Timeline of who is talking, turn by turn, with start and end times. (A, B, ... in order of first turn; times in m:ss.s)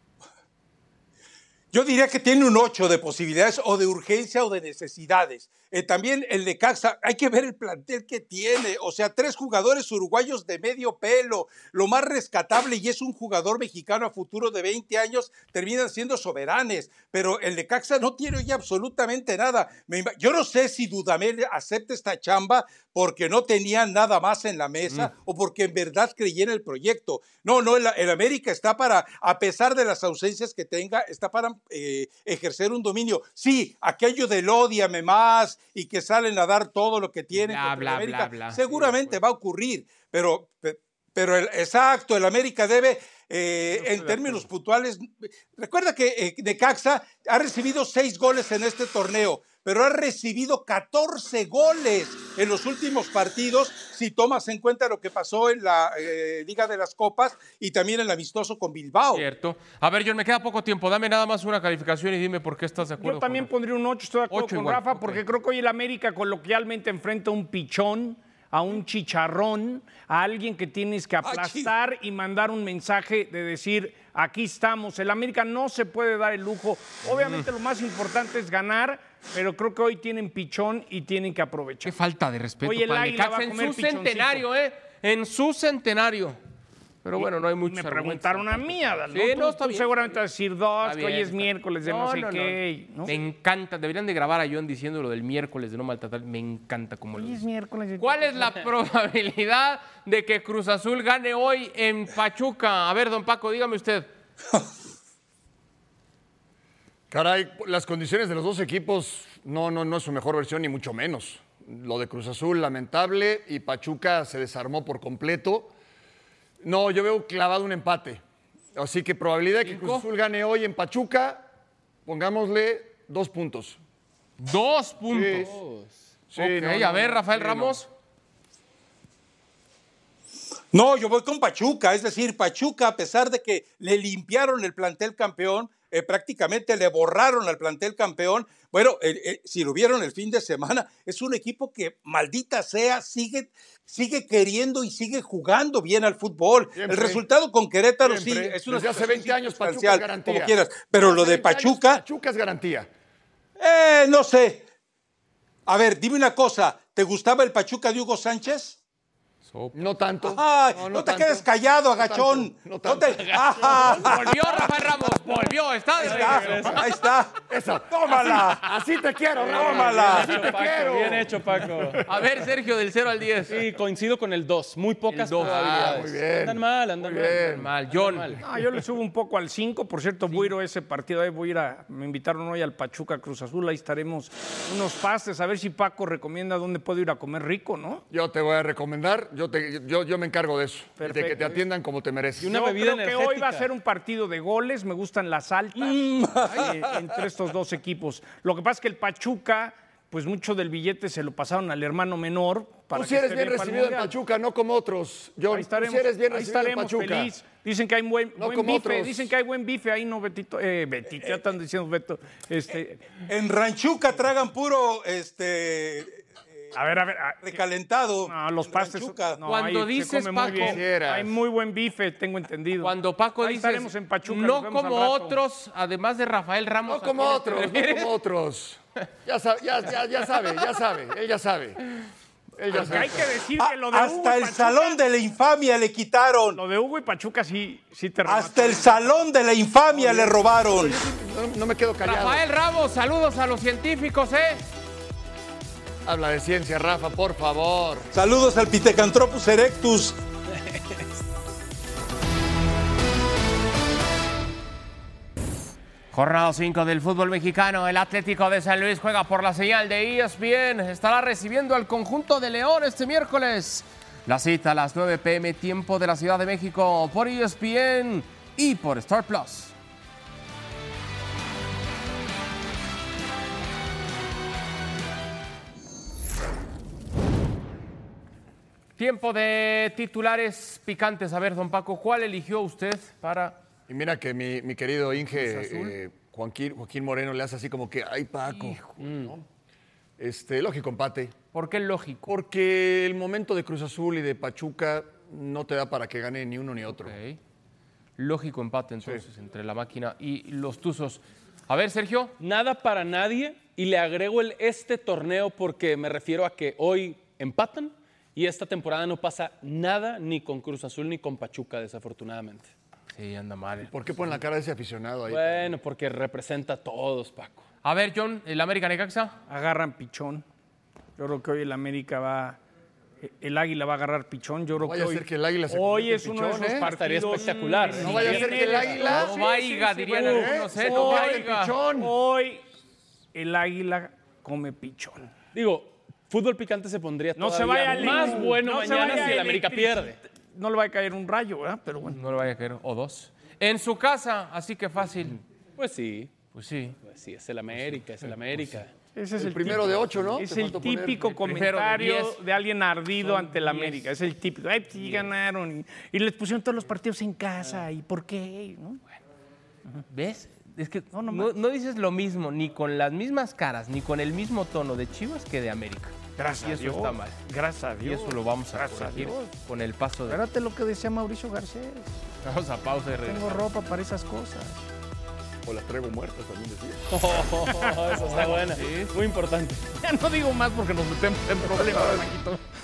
0:01.7-0:59.3 A
0:37.3-0:39.2 B
0:43.7-0:44.5 B
0:59.1-1:03.5 B
1:03.0-1:22.0 C
1:04.3-1:05.2 B
1:11.2-1:11.7 A
1:17.2-1:17.5 B
1:21.8-1:26.4 B
1:22.6-1:24.5 C
1:27.0-1:30.2 B
1:27.2-1:33.2 C
1:30.8-1:37.4 B
1:37.1-1:38.6 C
1:38.0-1:44.1 B
1:47.1-1:55.7 D
1:56.6-1:58.2 D
1:58.8-2:01.5 D
1:59.6-2:00.1 B
2:02.0-2:03.8 D
2:04.4-2:05.5 B
2:05.1-2:05.5 D
2:05.3-2:06.0 E
2:06.3-2:07.8 D
2:06.3-2:07.9 B
2:10.7-2:32.0 A
2:26.8-2:27.2 D
2:28.0-2:32.9 D
2:33.6-2:34.6 A
2:35.7-2:38.8 A
2:39.5-2:39.8 B
2:39.7-2:44.3 D
2:40.2-2:44.2 A
2:43.9-2:47.1 B
2:46.0-2:46.9 E
2:46.1-2:47.4 A
2:47.5-2:51.7 D
2:47.9-2:48.6 A
2:49.4-2:52.0 E
2:49.6-2:50.3 A
2:52.0-2:53.6 B
2:53.5-2:58.4 E
2:55.1-2:56.0 B
2:55.4-2:57.7 D
2:57.5-2:58.4 B
2:58.4-3:08.0 C
3:08.1-3:12.5 D
3:11.0-3:11.6 C
3:12.4-3:13.7 E
3:12.5-3:24.1 C
3:15.8-3:17.0 A
3:22.9-3:27.3 D
3:25.5-3:33.0 C
3:28.4-3:29.3 D
3:33.3-3:36.2 A
3:36.7-3:37.6 C
3:37.4-3:39.4 A
3:38.3-3:45.4 C
3:39.4-3:40.8 B
3:40.6-3:41.4 D
3:42.8-3:48.1 B
3:46.8-3:51.8 D
3:52.6-3:53.3 D
3:52.7-3:55.0 C
3:53.6-3:56.6 A
3:56.6-3:59.2 C
3:58.3-4:01.0 A
3:59.9-4:02.5 D
4:02.0-4:04.7 B
4:06.0-4:08.1 D
4:08.1-4:10.2 A
4:10.7-4:11.0 E
4:16.1-4:29.7 B
4:39.0-4:43.6 B
4:43.9-4:49.4 D
4:45.4-4:45.9 B
4:48.5-4:48.8 B
4:50.2-4:51.4 D
4:51.5-4:52.3 B
4:52.3-4:57.2 D
4:56.9-4:57.4 B
4:58.2-5:02.4 B
5:02.4-5:12.7 E
5:13.1-5:14.3 B
5:13.8-5:15.7 D
5:15.3-5:17.6 E
5:17.8-5:19.4 B
5:19.5-5:20.4 C
5:21.2-5:22.6 C
5:23.2-5:32.6 C
5:24.8-5:26.9 D
5:26.8-5:29.0 E
5:28.0-5:29.5 D
5:28.1-5:31.8 B
5:30.1-5:32.1 D
5:33.3-5:35.3 C
5:35.5-5:40.2 E
5:37.4-5:42.2 C
5:42.1-5:45.4 B
5:45.8-5:46.3 E
5:46.5-5:47.0 B
5:47.0-5:48.9 E
5:49.2-5:59.0 C
5:49.4-5:51.4 D
5:51.4-5:52.4 B
5:53.2-5:54.0 E
6:00.1-6:07.4 B
6:01.1-6:01.6 C
6:06.4-6:09.5 C
6:08.0-6:10.4 B
6:10.3-6:12.2 C
6:12.4-6:13.6 B
6:13.2-6:14.8 C
6:15.6-6:17.1 D
6:17.1-6:19.8 E
6:18.3-6:19.2 B
6:20.0-6:22.7 C